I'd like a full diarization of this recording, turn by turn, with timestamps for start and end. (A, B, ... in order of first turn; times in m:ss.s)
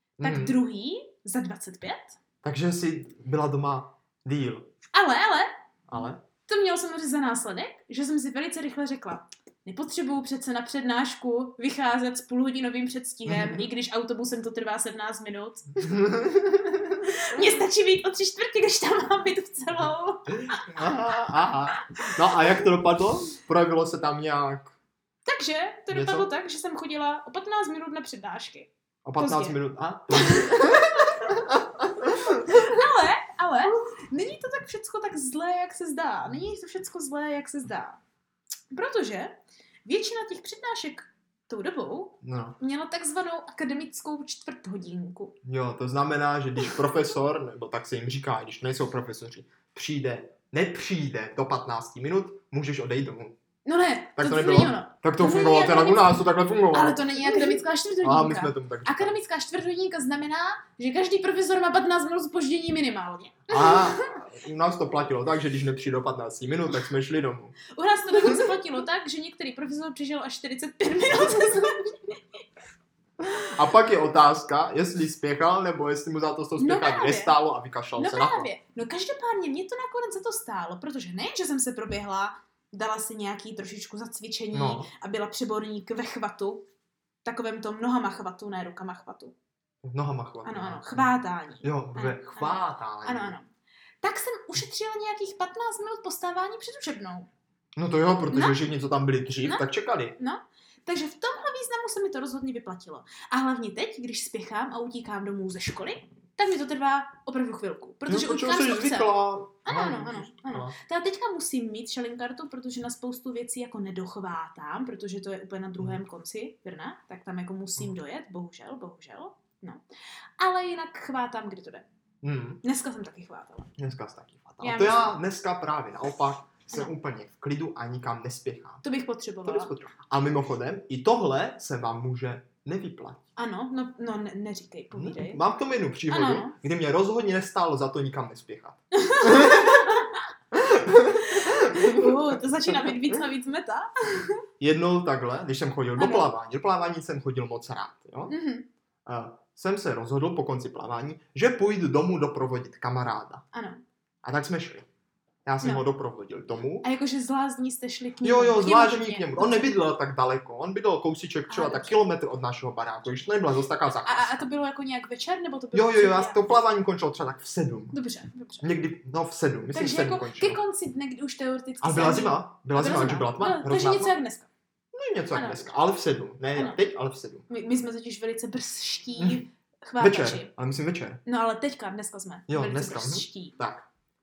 0:00.2-0:00.6 A
0:00.2-0:02.2 B
0:02.4-0:04.7 A
0:04.9-0:05.5 B
0:05.9-0:06.2 A
0:06.5-0:15.9 B
0:13.3-0:13.7 A
0:15.8-0:17.1 A
0:17.1-0:20.8 B
0:20.5-0:24.8 A
0:25.2-0:29.6 B
0:25.9-0:26.3 A
0:29.0-0:32.8 A
0:30.1-0:31.2 B
0:32.4-0:38.0 B
0:38.7-0:45.4 B
0:42.2-0:42.6 A
0:45.4-0:53.4 A
0:53.6-1:04.0 B
0:54.2-0:59.2 A
1:03.5-1:07.6 A
1:07.7-1:12.4 B
1:13.2-1:18.5 A
1:16.6-1:17.4 B
1:18.0-1:26.7 B
1:24.5-1:24.9 A
1:27.2-1:29.3 B
1:29.8-1:33.4 A
1:30.4-1:33.5 B
1:34.0-1:37.3 B
1:37.8-1:40.2 A
1:38.3-1:38.6 B
1:40.2-1:49.1 B
1:48.1-1:50.8 A
1:49.6-1:59.8 B
2:00.4-2:01.9 B
2:02.2-2:02.6 A
2:02.6-2:03.7 B
2:03.8-2:08.8 A
2:04.6-2:05.2 B
2:08.8-2:09.7 B
2:09.4-2:13.2 A
2:13.4-2:15.4 B
2:14.9-2:22.9 A
2:16.1-2:16.6 B
2:19.0-2:20.2 B
2:21.2-2:24.4 B
2:24.6-2:28.4 A
2:26.0-2:26.3 B
2:28.3-2:28.7 B
2:29.1-2:33.4 A
2:33.5-2:33.8 B
2:34.2-2:34.9 A
2:35.4-2:36.9 A
2:36.8-2:39.7 B
2:38.2-2:44.4 A
2:41.5-2:42.0 B
2:44.0-2:46.6 B
2:45.7-2:48.0 A
2:47.9-2:48.7 B
2:48.6-2:50.6 A
2:49.7-2:54.5 B
2:51.8-2:54.2 A
2:54.9-2:57.5 A
2:55.3-2:55.7 B
2:56.5-2:56.8 B
2:57.5-3:00.5 B
2:59.2-2:59.5 A
3:00.0-3:01.2 A
3:01.3-3:03.6 B
3:02.5-3:03.9 A